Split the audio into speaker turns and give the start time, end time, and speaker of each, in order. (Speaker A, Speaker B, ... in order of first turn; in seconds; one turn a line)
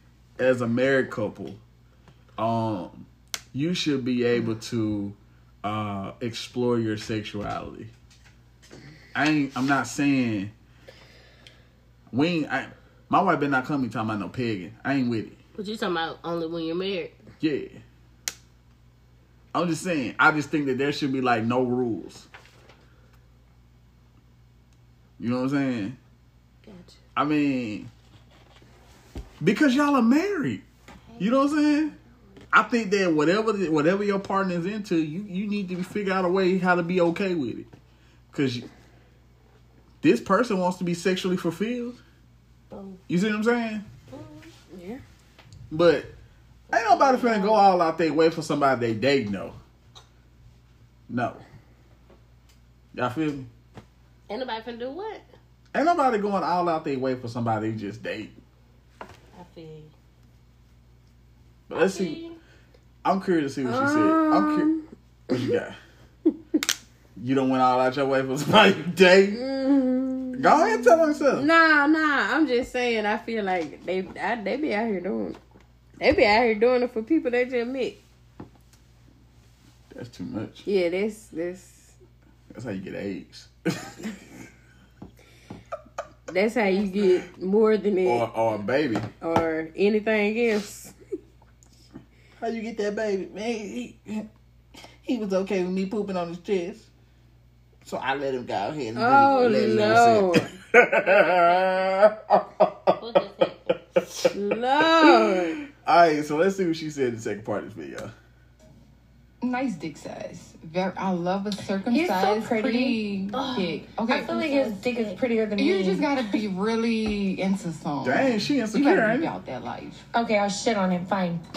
Speaker A: 0.4-1.6
Speaker A: 2.4-7.9
Speaker A: 9.1-10.5
Speaker A: 12.1-15.4
Speaker B: 15.6-17.1
Speaker A: 17.4-17.8
Speaker A: 19.5-22.3
Speaker A: 25.2-26.0
Speaker B: 26.6-27.0
Speaker A: 27.1-27.9
Speaker A: 29.4-30.6
Speaker B: 31.1-31.8
Speaker A: 31.2-31.9
Speaker A: 32.5-37.7
Speaker A: 38.3-38.6
Speaker A: 40.0-42.0
Speaker B: 42.7-43.0
Speaker A: 43.1-43.8
Speaker B: 44.1-44.5
Speaker C: 44.7-45.0
Speaker A: 45.7-46.1
Speaker B: 46.7-47.6
Speaker A: 46.7-49.5
Speaker A: 51.1-51.4
Speaker A: 52.9-53.5
Speaker B: 54.3-55.2
Speaker A: 55.7-58.4
Speaker B: 59.3-59.9
Speaker A: 61.7-62.2
Speaker B: 61.7-62.4
Speaker A: 63.0-64.7
Speaker C: 63.6-65.6
Speaker A: 65.3-65.8
Speaker A: 67.2-69.4
Speaker C: 69.3-75.4
Speaker A: 70.3-71.5
Speaker C: 76.0-78.0
Speaker A: 79.9-80.7
Speaker C: 80.6-82.0
Speaker A: 82.5-84.1
Speaker C: 86.3-88.2
Speaker B: 86.6-87.2
Speaker A: 88.0-89.1
Speaker C: 89.2-91.0
Speaker A: 92.4-94.2
Speaker A: 95.0-96.9
Speaker A: 97.8-103.0
Speaker C: 98.9-100.5
Speaker B: 99.2-100.2
Speaker B: 101.0-101.9
Speaker B: 103.0-103.8
Speaker A: 104.0-104.3
Speaker C: 104.3-105.6
Speaker A: 105.0-108.1
Speaker D: 109.4-120.0
Speaker E: 111.8-116.4
Speaker A: 118.0-119.3
Speaker E: 120.1-121.4